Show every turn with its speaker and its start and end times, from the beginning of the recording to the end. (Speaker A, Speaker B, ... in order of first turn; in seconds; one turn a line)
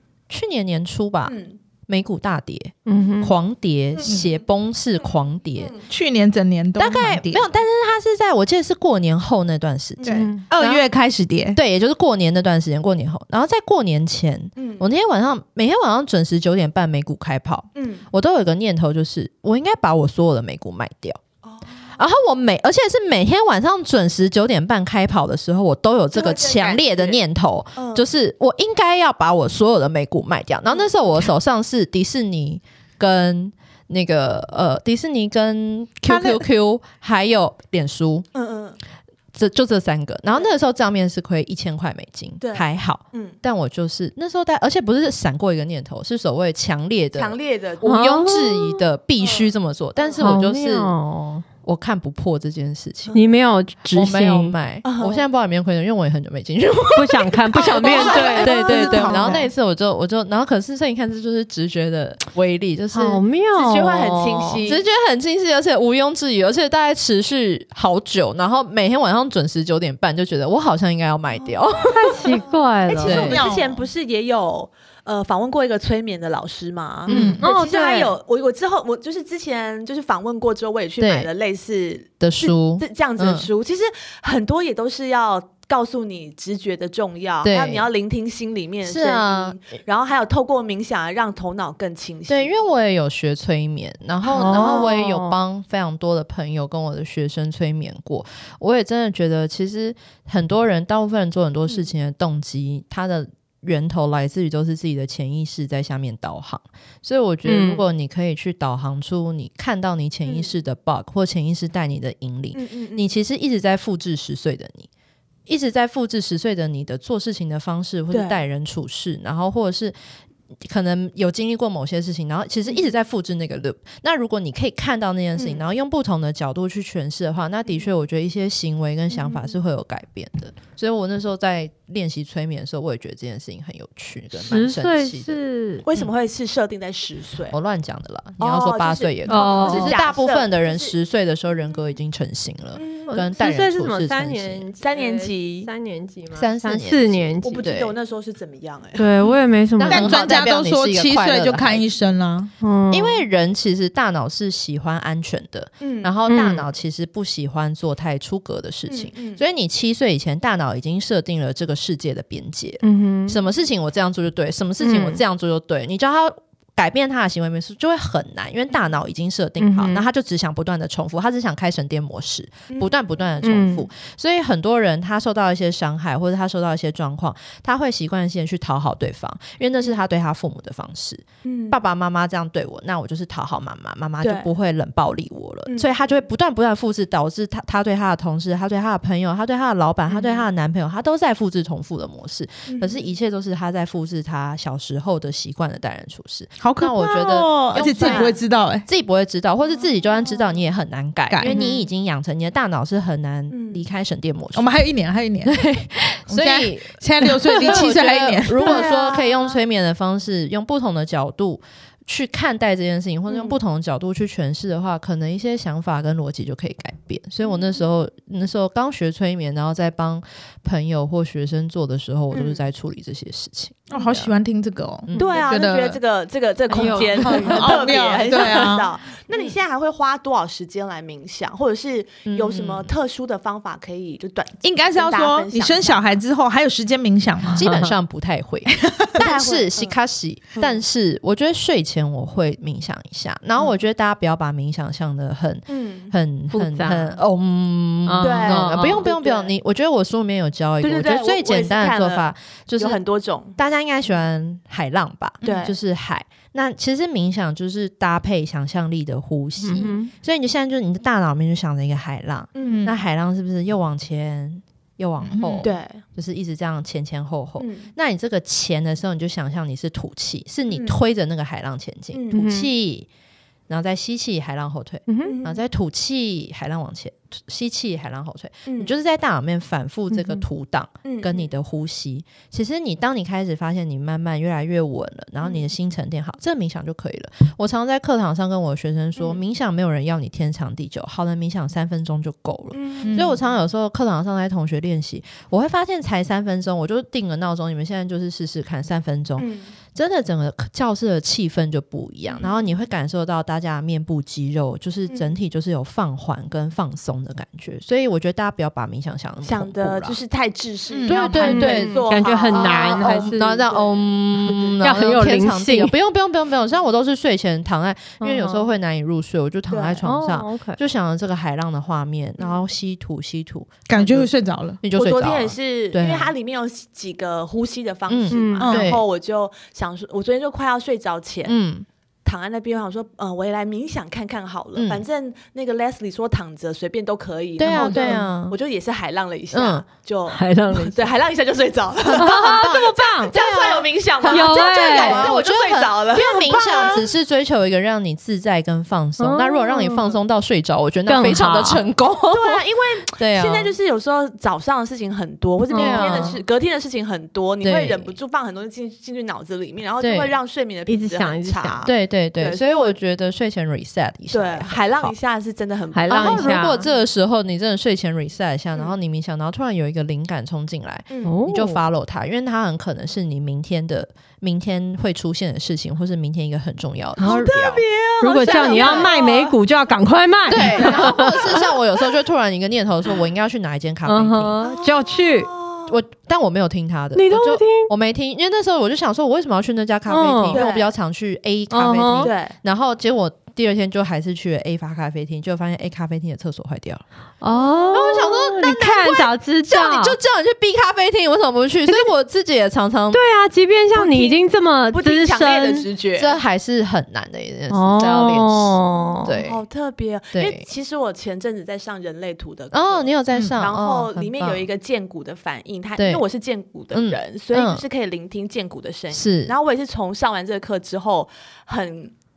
Speaker A: 0.3-1.4
Speaker B: 1.2-1.6
Speaker A: 1.9-5.8
Speaker C: 2.9-3.3
Speaker B: 5.6-5.9
Speaker D: 5.9-7.5
Speaker A: 6.8-10.8
Speaker C: 10.1-10.4
Speaker D: 10.1-11.6
Speaker A: 11.6-21.2
Speaker B: 14.6-14.9
Speaker B: 17.8-18.1
Speaker B: 21.4-22.0
Speaker A: 22.0-38.3
Speaker B: 26.1-27.2
Speaker B: 27.8-28.1
Speaker D: 36.1-36.5
Speaker B: 38.3-38.8
Speaker A: 39.3-50.9
Speaker B: 42.4-43.4
Speaker B: 47.1-47.9
Speaker C: 47.8-48.8
Speaker B: 49.2-50.2
Speaker C: 50.2-51.5
Speaker A: 51.6-53.2
Speaker B: 53.1-53.3
Speaker C: 53.1-54.5
Speaker A: 53.9-63.2
Speaker B: 54.8-55.3
Speaker C: 57.0-59.4
Speaker B: 57.5-59.3
Speaker D: 58.4-59.5
Speaker C: 62.9-64.6
Speaker B: 63.5-64.8
Speaker A: 64.6-72.3
Speaker B: 71.4-92.5
Speaker C: 71.9-73.4
Speaker A: 73.0-73.4
Speaker D: 73.2-73.8
Speaker A: 77.1-77.4
Speaker D: 77.1-77.4
Speaker C: 77.1-78.2
Speaker A: 81.0-81.3
Speaker A: 82.2-83.5
Speaker A: 87.4-87.9
Speaker A: 88.8-89.6
Speaker A: 92.3-114.9
Speaker B: 94.3-94.9
Speaker C: 94.3-95.3
Speaker C: 107.5-107.8
Speaker B: 110.3-110.5
Speaker B: 112.5-113.1
Speaker A: 115.5-120.0
Speaker B: 118.1-118.4
Speaker A: 120.6-135.4
Speaker B: 125.4-125.7
Speaker B: 129.1-129.5
Speaker C: 134.3-135.8
Speaker B: 135.8-137.6
Speaker A: 137.5-144.7
Speaker B: 138.4-140.9
Speaker C: 139.3-140.0
Speaker B: 142.8-143.2
Speaker C: 143.1-147.7
Speaker B: 144.8-145.7
Speaker A: 146.3-147.9
Speaker B: 147.4-149.4
Speaker C: 149.0-150.4
Speaker A: 149.8-151.9
Speaker D: 149.9-152.5
Speaker C: 152.6-153.2
Speaker A: 152.9-204.8
Speaker B: 155.8-156.1
Speaker C: 156.3-156.7
Speaker B: 158.9-159.4
Speaker C: 162.8-163.4
Speaker C: 164.8-165.2
Speaker C: 169.6-170.1
Speaker C: 173.4-173.9
Speaker B: 181.4-181.8
Speaker B: 184.2-184.5
Speaker B: 185.7-186.2
Speaker B: 190.1-190.5
Speaker B: 192.7-193.1
Speaker D: 196.6-198.9
Speaker B: 198.0-198.4
Speaker B: 199.7-200.5
Speaker D: 201.3-201.6
Speaker C: 201.4-201.9
Speaker B: 203.5-203.8
Speaker D: 204.6-205.6
Speaker A: 205.5-224.3
Speaker D: 206.3-208.8
Speaker B: 208.5-209.6
Speaker B: 213.3-213.6
Speaker B: 222.3-222.6
Speaker D: 223.9-226.0
Speaker A: 225.1-225.5
Speaker B: 225.2-236.2
Speaker C: 226.7-228.4
Speaker D: 227.2-228.9
Speaker A: 232.3-232.9
Speaker D: 234.6-237.7
Speaker C: 237.6-238.0
Speaker A: 237.6-253.0
Speaker D: 238.7-239.2
Speaker B: 239.2-240.0
Speaker B: 240.6-240.8
Speaker B: 245.7-246.1
Speaker C: 246.5-247.2
Speaker C: 248.1-249.1
Speaker B: 248.2-249.5
Speaker B: 250.8-252.3
Speaker B: 252.8-253.6
Speaker A: 253.6-273.1
Speaker D: 255.4-255.7
Speaker B: 255.4-255.8
Speaker C: 259.6-260.1
Speaker B: 262.6-262.9
Speaker D: 262.6-263.0
Speaker D: 265.2-265.7
Speaker B: 265.6-266.0
Speaker B: 267.6-267.9
Speaker B: 270.7-271.0
Speaker B: 272.1-272.5
Speaker C: 272.3-272.7
Speaker A: 273.7-310.2
Speaker C: 275.1-275.4
Speaker B: 275.2-275.6
Speaker B: 278.7-278.9
Speaker C: 280.1-280.4
Speaker B: 281.1-281.5
Speaker B: 285.4-285.7
Speaker B: 292.7-293.4
Speaker D: 293.0-293.4
Speaker B: 299.4-299.7
Speaker B: 302.3-302.8
Speaker B: 305.1-305.4
Speaker B: 309.4-314.8
Speaker D: 310.9-311.6
Speaker A: 311.1-324.3
Speaker C: 311.4-313.6
Speaker C: 314.8-315.9
Speaker C: 318.2-318.7
Speaker B: 319.7-320.0
Speaker C: 320.0-320.8
Speaker D: 323.9-324.8
Speaker A: 324.8-326.3
Speaker B: 325.0-331.6
Speaker A: 328.1-329.0
Speaker C: 328.3-328.7
Speaker D: 328.6-328.9
Speaker A: 331.4-331.9
Speaker B: 332.2-347.1
Speaker A: 334.8-335.1
Speaker A: 337.6-338.6
Speaker C: 337.7-338.1
Speaker A: 339.5-339.9
Speaker C: 340.3-341.1
Speaker C: 342.1-343.4
Speaker A: 342.2-353.7
Speaker C: 344.2-345.3
Speaker C: 349.2-350.2
Speaker C: 351.1-351.9
Speaker B: 352.3-363.0
Speaker C: 355.7-356.3
Speaker A: 355.7-356.4
Speaker A: 357.6-358.2
Speaker A: 360.0-360.4
Speaker C: 360.9-361.9
Speaker A: 361.9-365.1
Speaker B: 364.3-367.1
Speaker C: 365.9-366.8
Speaker A: 366.1-377.8
Speaker B: 371.1-371.4
Speaker C: 371.2-371.8
Speaker C: 377.2-377.6
Speaker B: 377.2-379.6
Speaker C: 378.2-381.7
Speaker A: 378.4-379.1
Speaker A: 380.5-384.6
Speaker B: 380.6-381.8
Speaker C: 384.1-385.5
Speaker B: 384.6-386.0
Speaker A: 385.9-397.0
Speaker C: 387.1-387.9
Speaker C: 390.1-390.7
Speaker B: 390.5-390.9
Speaker C: 391.7-392.3
Speaker B: 392.2-392.6
Speaker C: 397.4-400.2
Speaker B: 397.5-398.0
Speaker A: 397.9-403.2
Speaker C: 403.1-405.9
Speaker B: 403.9-404.4
Speaker B: 404.9-406.4
Speaker A: 406.2-409.6
Speaker C: 407.7-409.4
Speaker B: 409.4-422.1
Speaker A: 410.3-410.7
Speaker A: 412.7-414.7
Speaker D: 413.3-413.6
Speaker A: 416.0-416.2
Speaker A: 416.9-417.8
Speaker A: 419.1-419.5